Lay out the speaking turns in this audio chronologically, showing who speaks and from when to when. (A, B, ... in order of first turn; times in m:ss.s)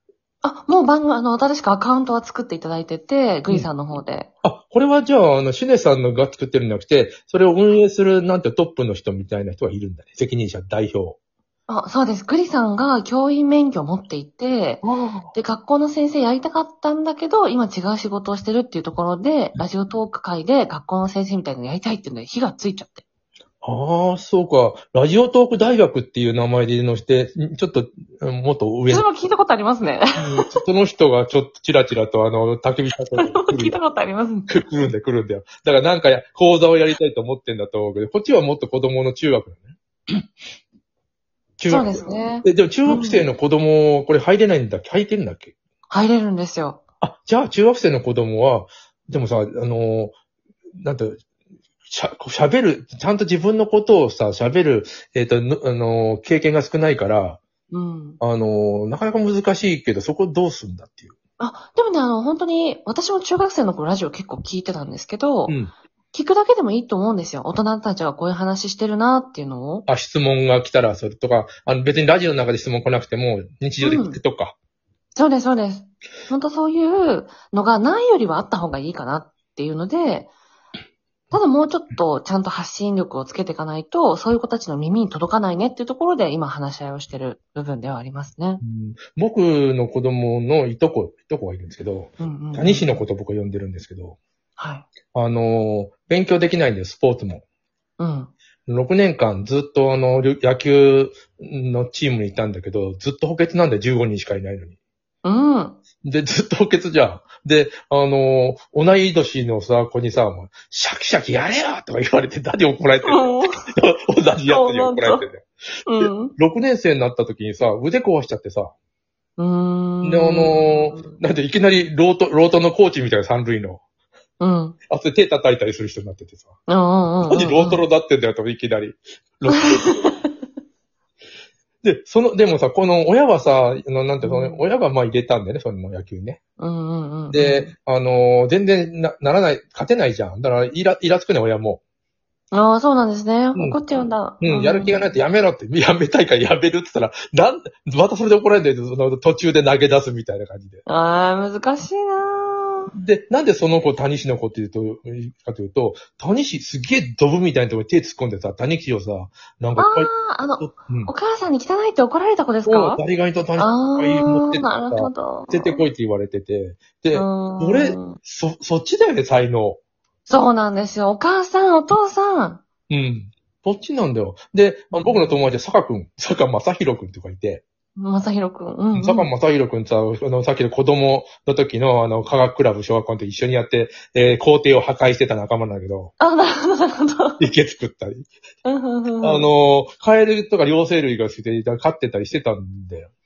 0:00.4-0:04.3 A
0:04.4-0:11.2 B
0:11.7-0:14.8 A
0:14.8-0:15.3 B
0:15.3-0:23.0 A
0:23.6-0:29.1 B
0:28.9-0:30.6 A
0:30.2-0:33.8 B
0:33.2-0:34.6 A
0:34.5-0:40.3 B
0:41.6-0:45.5 B
0:41.7-0:43.3 A
0:45.9-0:46.8 A
0:47.0-0:50.1 B
0:50.8-0:51.2 B
0:51.8-0:57.4 B
0:57.7-0:58.2 A
0:58.2-1:01.1 B
1:01.4-1:05.6 A
1:05.5-1:05.7 B
1:06.1-1:09.8 A
1:09.8-1:14.6 B
1:13.8-1:14.2 A
1:15.1-1:20.3 A
1:21.3-1:28.6 A
1:28.6-1:34.2 B
1:32.2-1:33.0 A
1:34.6-1:34.9 A
1:35.0-1:37.4 B
1:38.0-1:38.3 A
1:38.6-1:44.8 B
1:45.2-1:45.8 A
1:46.0-1:58.7 B
1:53.0-1:53.7 A
1:54.5-1:55.2 A
1:55.9-1:56.3 A
1:59.4-2:01.2 A
2:00.0-2:03.8 B
2:04.4-2:04.8 A
2:04.9-2:06.5 B
2:06.7-2:07.8 A
2:07.2-2:10.2 B
2:09.5-2:10.2 A
2:11.8-2:16.4 B
2:14.2-2:14.6 A
2:16.6-2:17.7 A
2:17.3-2:21.8 B
2:22.5-2:25.1 A
2:23.5-2:23.8 B
2:24.4-2:30.8 B
2:30.8-2:32.9 A
2:32.9-2:41.1 B
2:39.8-2:43.0 A
2:42.6-2:49.8 B
2:43.6-2:45.9 A
2:47.1-2:48.2 A
2:50.3-2:52.6 A
2:52.9-2:57.6 B
2:54.9-2:55.4 A
2:58.0-2:59.3 A
2:58.9-3:06.1 B
3:06.2-3:07.4 A
3:07.4-3:08.3 B
3:08.6-3:09.5 A
3:09.2-3:13.1 B